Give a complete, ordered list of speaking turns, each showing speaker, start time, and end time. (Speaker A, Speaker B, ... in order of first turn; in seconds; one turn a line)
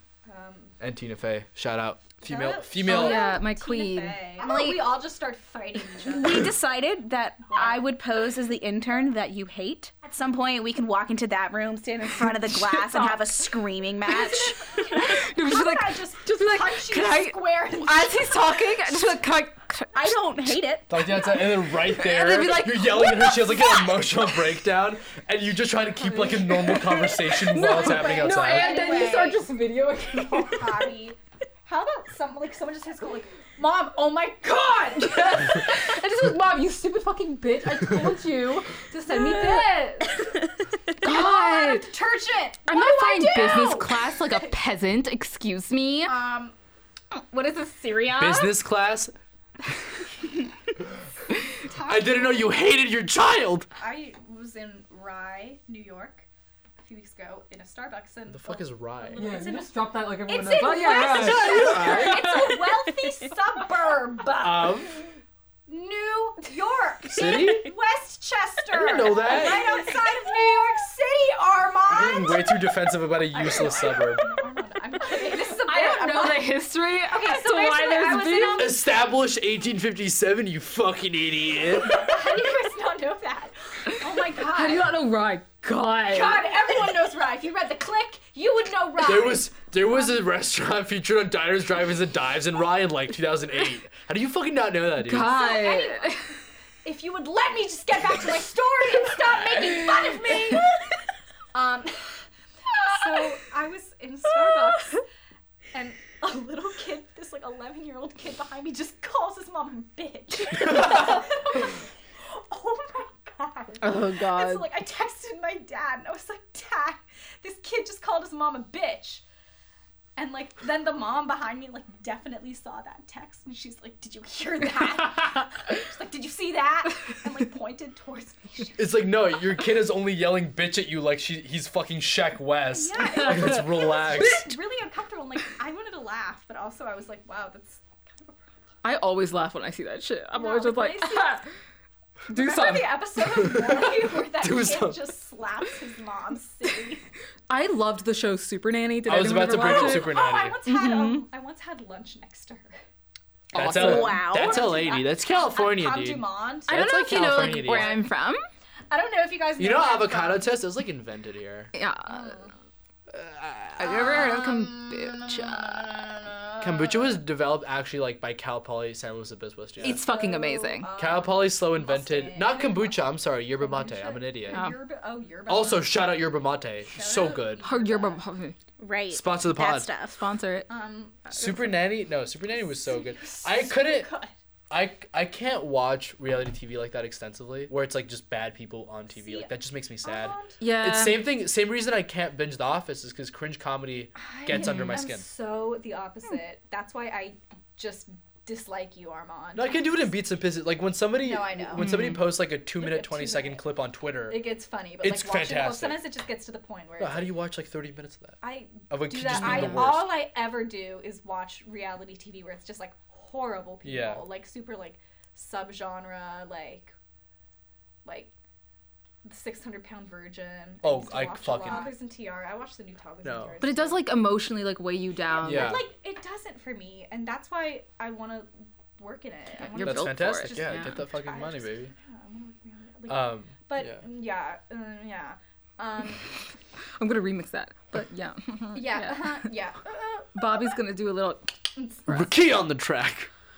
Speaker A: 0.2-0.7
Speaker B: 0.8-3.3
Speaker A: 2.2-6.5
Speaker C: 2.8-4.8
Speaker D: 4.4-4.8
Speaker D: 6.0-14.7
Speaker A: 7.5-7.9
Speaker C: 12.3-13.4
Speaker A: 14.1-18.8
Speaker C: 14.1-20.6
Speaker D: 19.9-20.9
Speaker B: 20.9-28.9
Speaker C: 21.4-24.0
Speaker C: 26.0-30.9
Speaker A: 27.6-29.4
Speaker D: 28.9-29.3
Speaker A: 30.2-35.8
Speaker C: 35.0-40.3
Speaker C: 41.0-41.9
Speaker A: 41.0-44.5
Speaker C: 42.7-46.2
Speaker A: 46.0-46.5
Speaker C: 47.1-48.6
Speaker B: 48.1-49.1
Speaker A: 51.6-52.6
Speaker B: 51.8-53.7
Speaker A: 53.7-56.2
Speaker A: 56.8-64.9
Speaker B: 58.3-59.3
Speaker C: 59.2-63.1
Speaker B: 61.0-62.4
Speaker B: 64.4-65.0
Speaker A: 65.7-72.7
Speaker B: 67.1-67.7
Speaker B: 68.7-69.8
Speaker C: 69.2-70.1
Speaker B: 71.9-74.3
Speaker A: 73.3-78.8
Speaker C: 75.3-78.7
Speaker B: 78.5-82.1
Speaker A: 81.8-84.9
Speaker C: 84.3-86.6
Speaker A: 86.0-90.2
Speaker B: 89.0-95.4
Speaker C: 95.0-96.3
Speaker A: 95.2-100.8
Speaker A: 101.5-102.2
Speaker A: 102.8-105.0
Speaker A: 105.7-119.2
Speaker C: 113.8-114.7
Speaker A: 120.2-128.8
Speaker B: 128.8-134.5
Speaker A: 132.7-138.3
Speaker C: 133.1-134.2
Speaker C: 138.8-141.5
Speaker A: 140.3-141.4
Speaker C: 142.3-143.0
Speaker A: 142.3-147.1
Speaker B: 143.4-145.0
Speaker C: 147.5-151.2
Speaker B: 149.1-150.6
Speaker A: 149.5-152.8
Speaker C: 153.5-154.2
Speaker B: 153.5-158.0
Speaker D: 153.6-154.8
Speaker A: 154.3-158.0
Speaker C: 156.7-158.4
Speaker A: 158.9-160.6
Speaker B: 159.6-161.7
Speaker C: 161.7-162.4
Speaker A: 162.1-162.5
Speaker B: 163.1-163.8
Speaker C: 163.8-166.1
Speaker B: 166.6-170.1
Speaker A: 169.8-176.2
Speaker C: 169.8-170.9
Speaker B: 170.9-174.6
Speaker C: 174.5-174.8
Speaker B: 175.5-177.6
Speaker A: 176.9-178.2
Speaker C: 177.6-178.6
Speaker D: 178.8-180.2
Speaker B: 179.1-179.9
Speaker C: 180.1-180.7
Speaker A: 180.7-181.5
Speaker B: 181.3-184.1
Speaker A: 182.4-184.3
Speaker B: 184.7-195.2
Speaker A: 189.1-190.6
Speaker C: 190.6-191.2
Speaker A: 194.2-200.1
Speaker C: 194.5-195.1
Speaker B: 199.5-204.5
Speaker A: 201.2-201.9
Speaker C: 201.7-202.2
Speaker A: 202.8-203.6
Speaker A: 204.3-207.3
Speaker B: 205.0-206.0
Speaker B: 207.0-210.1
Speaker A: 208.4-216.9
Speaker C: 209.3-209.8
Speaker B: 213.8-214.2
Speaker A: 218.0-218.3
Speaker A: 219.2-224.0
Speaker B: 220.8-221.9
Speaker B: 223.2-223.6
Speaker C: 223.6-225.8
Speaker A: 225.3-236.3
Speaker B: 225.4-225.8
Speaker C: 229.6-231.0
Speaker B: 229.8-231.9
Speaker B: 233.1-234.0
Speaker C: 237.0-239.5
Speaker A: 238.7-240.8
Speaker C: 240.3-242.3
Speaker A: 241.8-242.0
Speaker B: 242.1-243.3